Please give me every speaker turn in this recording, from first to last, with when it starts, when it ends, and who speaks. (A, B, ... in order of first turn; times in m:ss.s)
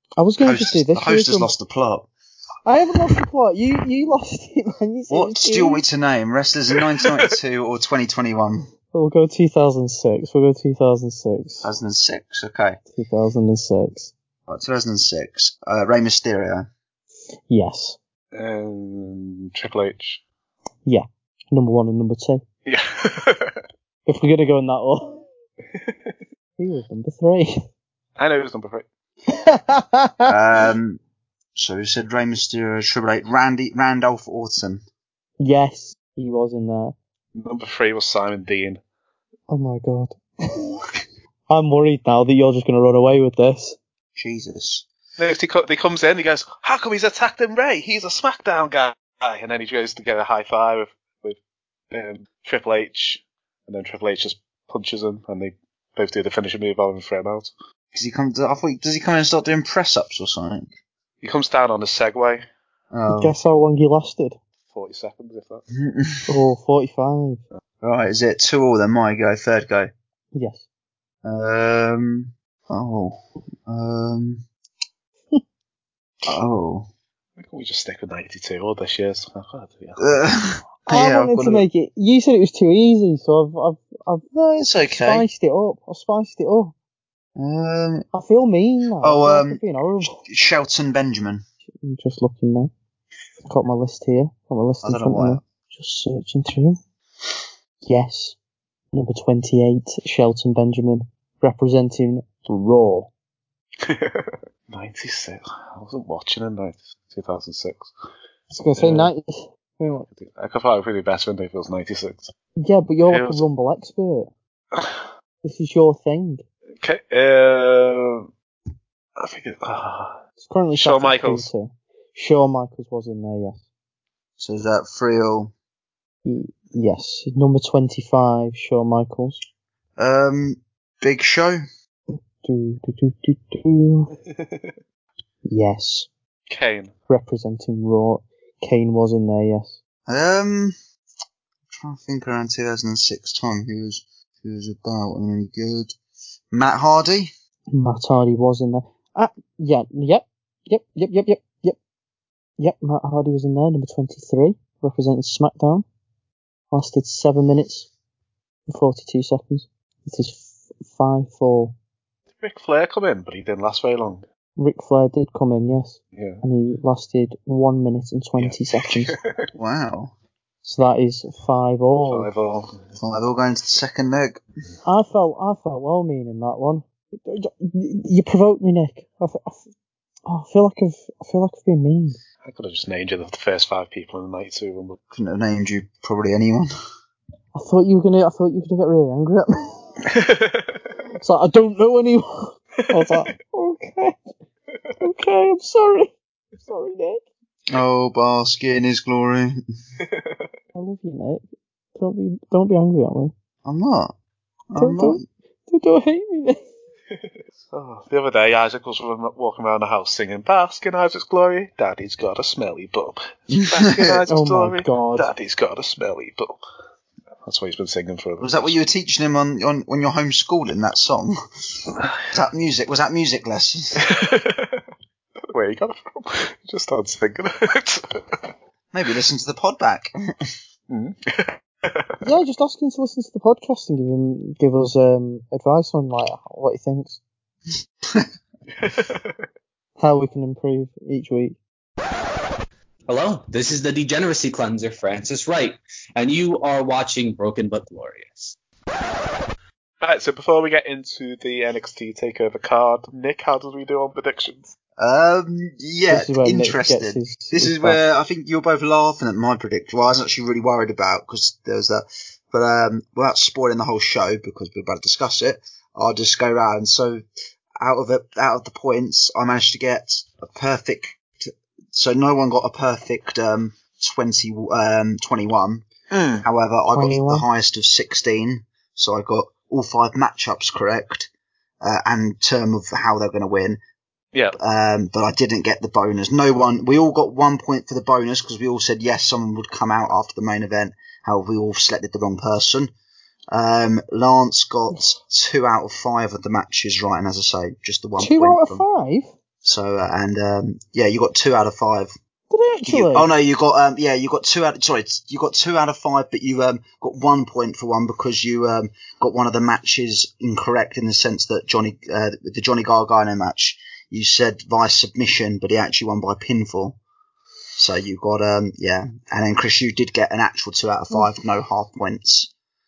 0:00.2-0:01.5 A
0:00.4-0:02.1 B
0:02.6-0:05.8 A
0:05.1-0:08.7 B
0:08.9-0:11.6 A
0:11.6-0:12.8 B
0:12.9-0:14.1 A
0:14.5-0:16.7 B
0:17.5-0:18.0 A
0:18.3-0:20.2 C
0:20.8-0:22.4 A
0:22.6-0:23.6 C
0:24.1-0:25.2 A
0:25.7-0:26.2 C
0:26.6-0:27.6 A
0:28.2-0:28.8 C
0:29.3-0:30.3 A
0:30.3-0:31.0 B
0:31.6-0:34.8 B
0:35.4-0:36.9 A
0:37.3-0:38.8 C
0:39.5-0:40.8 A
0:41.5-0:43.8 A
0:44.2-0:44.8 B
0:45.2-0:51.4 C
0:51.9-0:57.5 C
0:57.9-1:00.7 B
1:01.2-1:02.4 C
1:02.9-1:03.3 B
1:03.1-1:04.4 A
1:04.7-1:05.6 C
1:05.7-1:06.2 B
1:06.3-1:07.4 A
1:07.8-1:09.9 B
1:10.3-1:10.6 A
1:11.2-1:14.4 B
1:16.3-1:16.9 B
1:17.4-1:20.0 C
1:20.0-1:21.6 B
1:20.9-1:26.7 A
1:24.3-1:25.2 B
1:27.4-1:28.0 B
1:28.1-1:30.2 A
1:29.0-1:31.4 B
1:31.8-1:32.7 A
1:33.4-1:36.8 A
1:34.8-1:35.4 B
1:37.8-1:38.4 A
1:38.9-1:43.1 A
1:43.8-1:47.9 C
1:48.5-1:50.1 A
1:48.8-1:49.1 C
1:50.1-1:52.3 C
1:52.6-1:54.3 A
1:53.1-1:53.4 C
1:54.7-1:55.1 C
1:55.4-1:56.4 A
1:56.8-1:58.3 C
1:59.2-2:00.2 C
2:00.4-2:03.6 A
2:00.7-2:01.5 C
2:04.4-2:05.5 B
2:06.2-2:09.4 A
2:10.0-2:11.6 B
2:12.1-2:14.1 A
2:14.3-2:14.8 C
2:15.4-2:16.1 A
2:16.5-2:16.9 C
2:17.1-2:19.8 A
2:20.1-2:20.7 B
2:21.7-2:26.0 B
2:26.5-2:27.3 B
2:27.7-2:31.8 A
2:32.6-2:35.8 A
2:36.7-2:37.9 A
2:38.7-2:41.7 A
2:42.4-2:44.2 C
2:44.6-2:49.2 A
2:46.1-2:46.4 C
2:48.4-2:49.5 C
2:49.5-2:50.1 B
2:50.6-2:52.3 A
2:52.1-2:52.9 C
2:53.0-2:54.4 B
2:54.8-2:59.6 A
3:00.3-3:02.2 A
3:02.4-3:05.0 C
3:05.1-3:06.7 B
3:07.5-3:09.9 A
3:10.1-3:10.9 C
3:11.2-3:14.3 A
3:12.8-3:13.1 C
3:15.0-3:17.2 A
3:17.7-3:19.6 B
3:20.0-3:20.5 C
3:20.7-3:21.4 A
3:22.0-3:23.3 A
3:23.6-3:24.1 B
3:24.7-3:25.2 B
3:24.8-3:26.6 A
3:27.1-3:36.6 C
3:33.5-3:34.2 B
3:34.3-3:35.3 A
3:37.4-3:38.8 C
3:38.4-3:41.3 B
3:42.3-3:44.2 B
3:44.0-3:44.8 C
3:45.5-3:48.5 C
3:48.9-3:50.1 B
3:50.9-3:52.2 C
3:52.2-3:57.2 A
3:58.8-3:59.4 C
4:00.0-4:01.6 A
4:03.1-4:08.5 D
4:10.0-4:14.7 C
4:15.0-4:27.2 B
4:16.1-4:18.0 A
4:27.8-4:35.9 B
4:36.1-4:36.4 C
4:36.4-4:41.3 B
4:36.9-4:37.4 A
4:41.8-4:43.8 B
4:44.5-4:52.9 B
4:53.5-4:58.8 B
4:58.2-4:59.3 A
4:59.6-5:02.1 B
5:02.5-5:03.3 A
5:02.8-5:17.0 B
5:17.8-5:22.5 B